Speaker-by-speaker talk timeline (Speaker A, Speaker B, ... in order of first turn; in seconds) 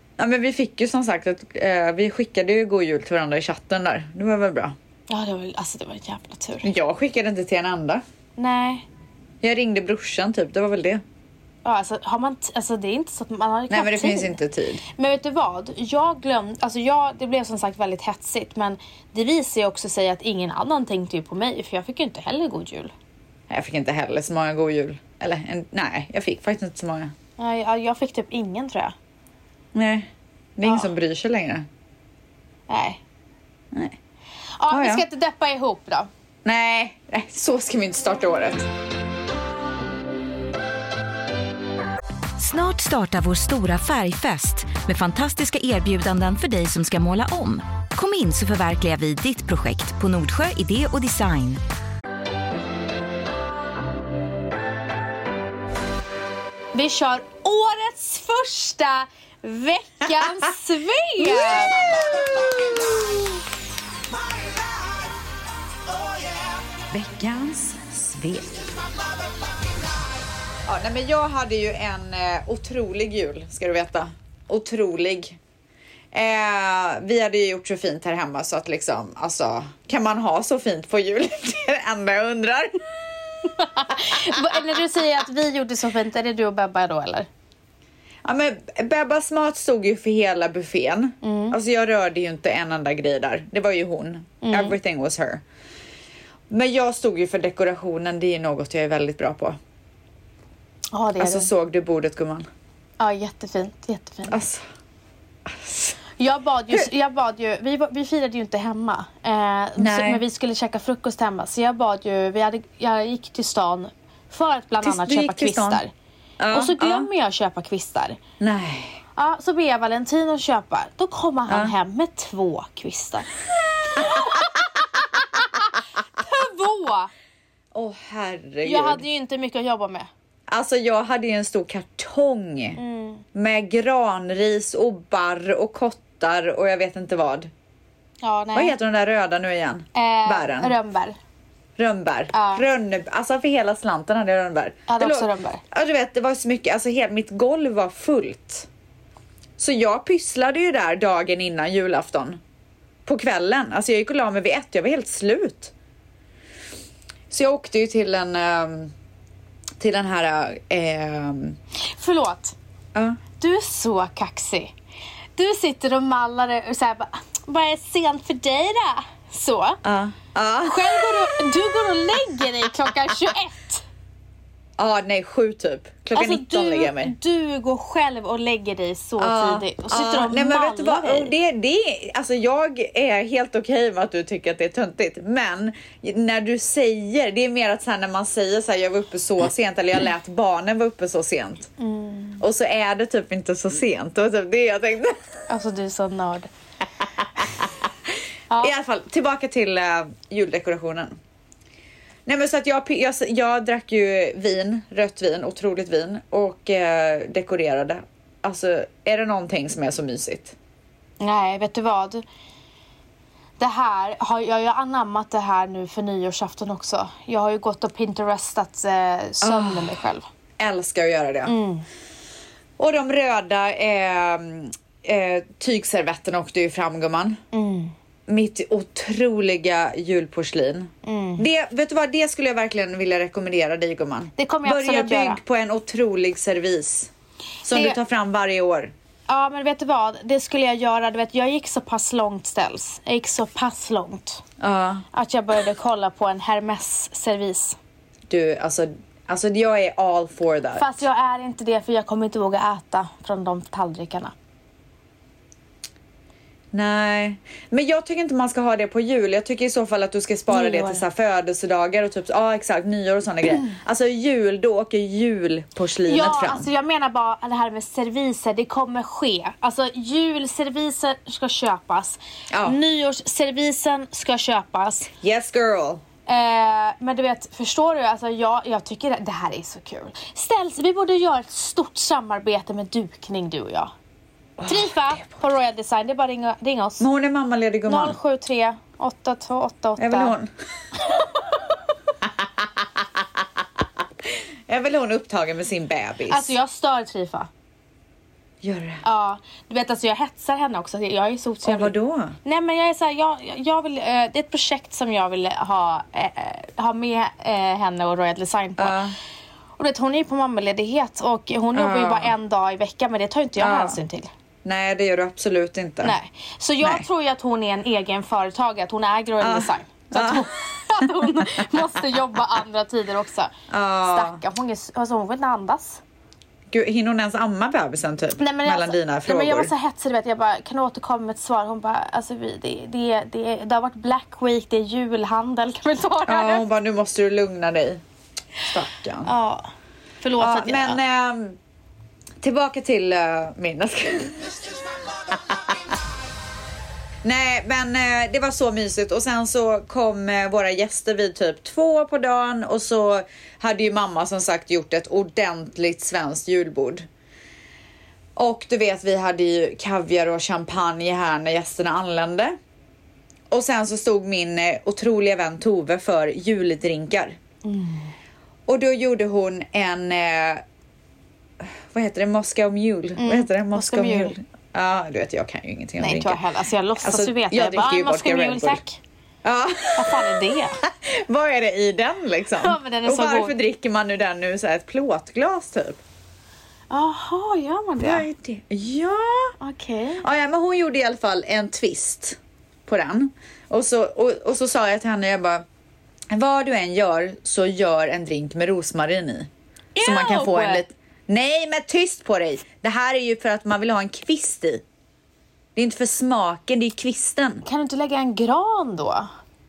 Speaker A: 0.2-4.8, 6.6-8.0, 9.4-11.0, 13.7-14.8, 23.5-27.1, 29.7-31.7, 33.7-34.0, 34.7-35.0, 36.5-38.7, 61.2-63.3, 64.3-65.1, 65.9-69.2, 70.7-75.4, 76.1-82.8, 88.2-95.4, 96.5-99.6, 101.2-102.5, 104.3-104.7, 105.5-106.0, 109.8-110.2, 114.8-115.8, 116.4-117.1, 118.4-119.0, 121.5-121.7, 127.7-129.0, 130.5-132.8, 133.3-137.5, 138.6-140.8, 141.8-148.7, 149.6-152.4, 153.1-155.7, 157.3-158.9, 159.8-161.6, 162.9-163.2, 169.8-171.4, 174.8-177.1, 179.2-191.7, 192.4-195.2, 197.4-197.7, 198.6-201.2, 202.3-210.6, 219.4-220.0, 220.6-221.5, 222.8-227.4, 228.3-237.1, 237.7-238.9, 244.6-245.0, 248.3-251.0, 256.7-266.7, 272.5-272.8, 275.2-276.0, 284.6-285.2, 287.0-288.2, 290.0-290.5, 292.3-293.4, 294.2-296.6, 298.6-299.0, 301.6-302.4, 308.8-309.1, 311.7-312.3, 313.6-314.0, 314.6-316.1, 319.4-320.5, 321.0-321.9, 323.7-324.4, 326.7-329.7, 336.3-338.0, 338.6-339.3, 340.4-341.6, 342.4-345.9, 347.2-357.1, 358.4-362.6, 363.5-367.4, 368.7-370.6, 371.6-376.4, 377.0-378.8, 379.4-386.0, 388.0-389.5, 390.2-395.6, 396.3-399.5, 400.0-404.8, 405.8-407.6
Speaker B: 5.1-6.7, 8.4-8.9, 11.6-14.4, 14.9-22.9, 27.4-28.9, 32.7-33.0, 34.6-36.1, 56.7-61.8, 83.6-87.3, 91.2-91.6, 94.4-94.8, 100.9-101.5, 103.0-104.4, 106.2-115.9, 116.5-118.2, 119.2-123.3, 123.9-124.6, 125.2-125.6, 126.2-127.1, 128.6-130.1, 132.8-133.2, 138.2-138.7, 139.9-141.2, 142.3-142.7, 144.9-145.6, 161.9-162.6, 163.4-164.7, 165.4-169.8, 170.6-173.8, 176.1-181.3, 191.8-192.4, 195.5-196.5, 211.2-212.2, 213.6-220.2, 221.4-221.8, 227.5-227.9, 231.0-231.5, 234.4-235.4, 237.7-238.0, 239.3-244.4, 245.1-247.8, 250.8-254.3, 260.5-261.0, 266.1-275.1, 276.3-283.9, 284.6-287.1, 287.9-290.3, 296.3-297.5, 299.0-309.0, 309.8-314.3, 316.0-323.5, 324.0-326.0, 328.4-336.7, 339.2-339.7, 340.2-341.0, 367.6-368.1, 373.2-374.4, 376.0-379.0, 380.0-380.8, 382.6-383.5, 386.9-388.3, 389.6-390.2, 399.9-400.8, 407.6-409.3
Speaker C: 42.4-51.6